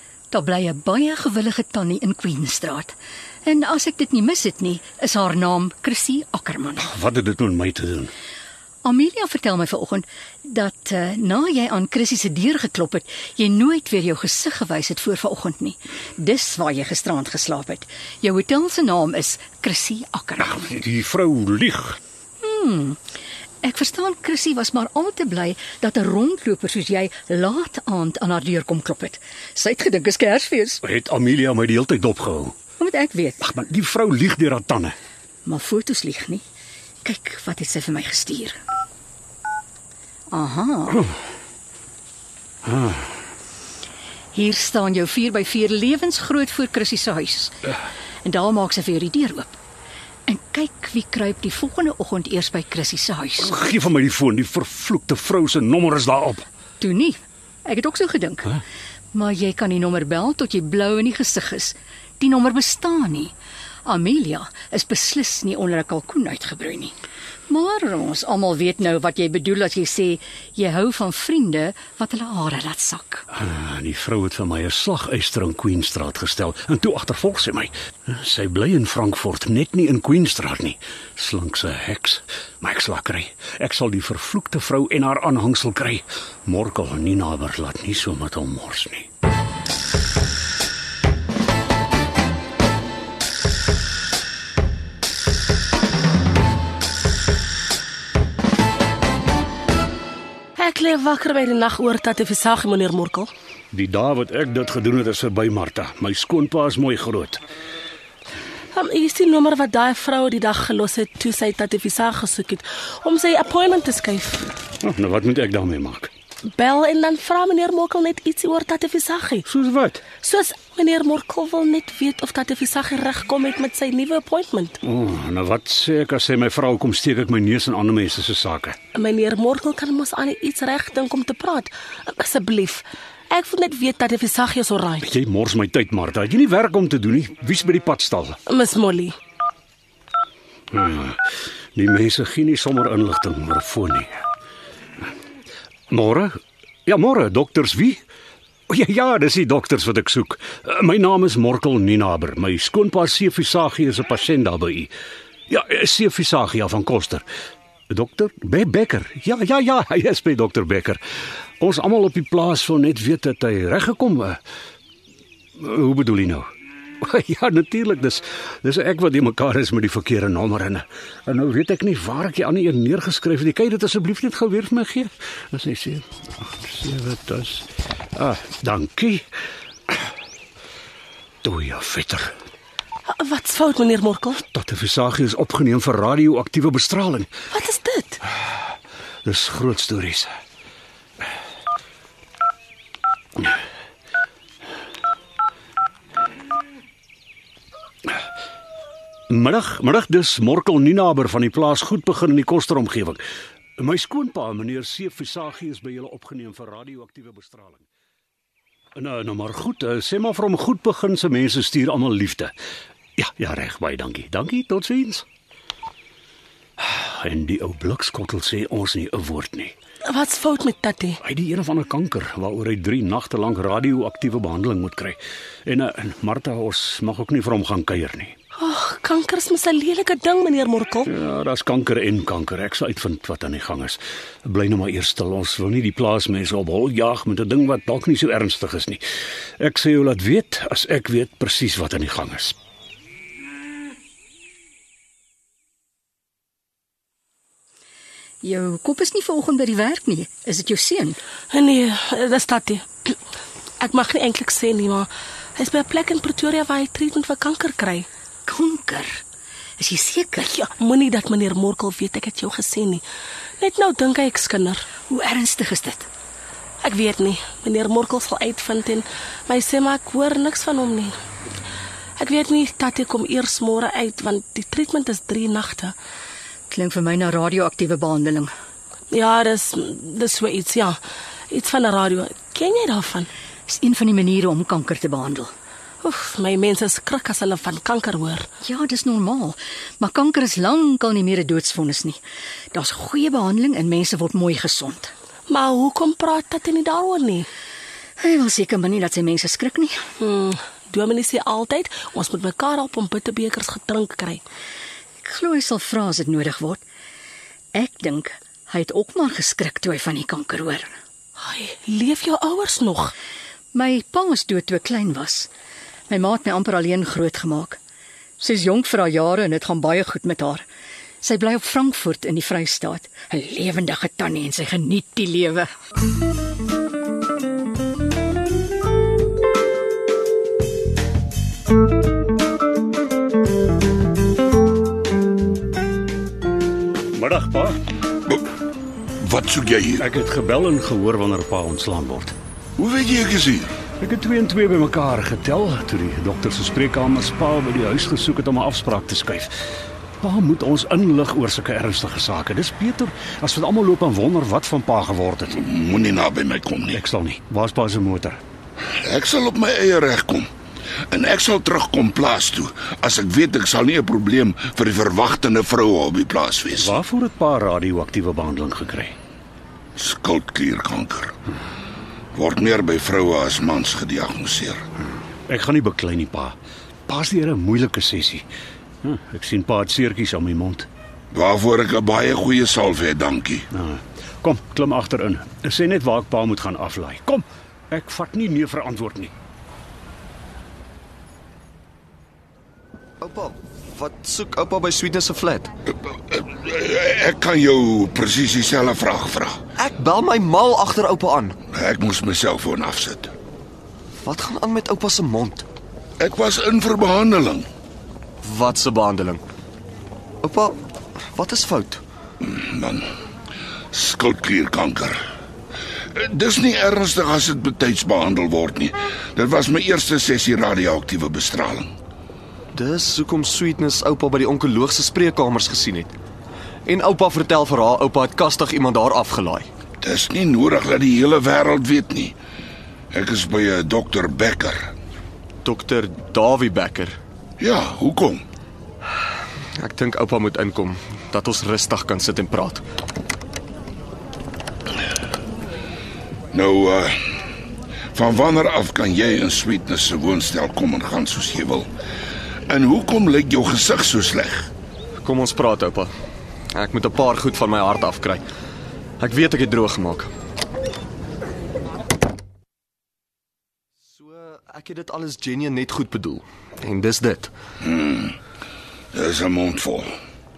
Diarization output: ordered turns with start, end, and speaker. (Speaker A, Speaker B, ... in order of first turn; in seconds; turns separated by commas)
Speaker A: 0.3-6.9, Speaker B: 6.8-8.1, Speaker A: 8.8-20.8, Speaker B: 20.4-22.0, Speaker A: 22.4-23.0, Speaker A: 23.6-30.8, Speaker B: 30.8-32.5, Speaker A: 32.8-33.4, Speaker B: 33.4-35.0, Speaker A: 35.5-36.4, Speaker A: 37.0-38.6, Speaker A: 40.3-41.0, Speaker B: 42.7-43.0, Speaker A: 44.3-47.7, Speaker A: 48.2-49.6, Speaker A: 50.3-53.5, Speaker B: 53.4-56.5, Speaker A: 56.8-58.6, Speaker A: 59.1-63.3, Speaker A: 63.9-67.0, Speaker A: 67.5-73.3, Speaker B: 73.3-89.1, Speaker C: 100.6-103.3, Speaker B: 103.7-107.4, Speaker C: 108.7-114.5, Speaker B: 114.8-116.1, Speaker C: 116.5-119.5, Speaker B: 119.5-120.0, Speaker C: 120.2-124.8, Speaker B: 124.8-128.8, Speaker C: 128.9-135.1, Speaker B: 135.1-138.4, Speaker C: 138.5-139.2, Speaker B: 140.7-141.2, Speaker B: 141.8-144.1, Speaker B: 145.9-148.0, Speaker B: 148.7-154.9, Speaker B: 155.5-157.2, Speaker B: 157.9-161.0, Speaker B: 161.6-164.4, Speaker B: 165.6-166.5, Speaker B: 167.0-179.3, Speaker B: 181.4-182.3, Speaker C: 183.1-184.4, Speaker B: 184.5-187.3, Speaker C: 187.5-188.2, Speaker B: 189.2-190.3, Speaker B: 199.3-203.2, Speaker B: 203.8-207.9, Speaker B: 209.0-212.5, Speaker B: 213.2-215.2, Speaker B: 216.8-219.7, Speaker C: 220.1-221.2, Speaker B: 221.2-228.3, Speaker C: 228.6-231.1, Speaker B: 231.1-239.0, Speaker B: 239.6-242.6, Speaker A: 248.4-251.2, Speaker C: 251.5-253.2, Speaker C: 253.8-258.1, Speaker A: 258.5-259.2, Speaker A: 259.8-260.5, Speaker C: 260.5-263.0, Speaker C: 263.6-264.9, Speaker A: 265.1-266.1, Speaker C: 266.8-271.2, Speaker C: 272.2-275.9, Speaker A: 276.7-278.5, Speaker C: 279.1-281.0, Speaker C: 281.5-283.3, Speaker A: 283.7-285.5, Speaker C: 286.0-288.5, Speaker A: 288.6-292.2, Speaker A: 292.7-295.1, Speaker C: 295.5-297.5, Speaker A: 298.2-300.0, Speaker C: 300.2-304.4, Speaker A: 305.2-306.8, Speaker A: 307.7-310.9, Speaker C: 311.4-313.1, Speaker A: 313.7-315.5, Speaker A: 316.1-317.8, Speaker A: 318.4-320.6, Speaker A: 321.2-325.7, Speaker B: 337.1-337.8, Speaker D: 339.2-340.1, Speaker B: 340.0-342.4, Speaker D: 342.8-343.7, Speaker B: 344.0-349.5, Speaker B: 350.2-355.6, Speaker D: 355.6-357.0, Speaker B: 356.9-358.4, Speaker D: 359.0-360.5, Speaker D: 361.1-366.9, Speaker B: 366.8-369.1, Speaker D: 370.0-371.4, Speaker D: 372.4-374.8, Speaker B: 375.5-376.6, Speaker B: 377.1-378.5, Speaker B: 379.0-380.9, Speaker D: 381.3-383.7, Speaker B: 383.7-389.3, Speaker E: 393.2-395.7, Speaker D: 396.1-399.6, Speaker E: 399.8-401.6, Speaker D: 401.7-403.3, Speaker E: 404.2-405.6, Speaker D: 406.2-407.7, Speaker E: 408.4-409.4, Speaker E: 410.4-410.8, Speaker E: 411.3-412.0, Speaker D: 412.4-413.1, Speaker D: 413.9-415.2, Speaker D: 416.1-421.9, Speaker E: 422.7-426.1, Speaker E: 426.9-429.7, Speaker D: 430.0-432.4, Speaker D: 433.1-434.9, Speaker E: 435.6-437.2, Speaker D: 437.6-438.4, Speaker E: 439.8-442.8, Speaker D: 446.5-447.2, Speaker D: 448.1-451.9, Speaker D: 452.7-454.7, Speaker E: 455.2-456.1, Speaker E: 456.8-458.4, Speaker E: 459.2-460.3, Speaker E: 464.1-467.5, Speaker D: 467.8-468.4, Speaker D: 469.1-470.1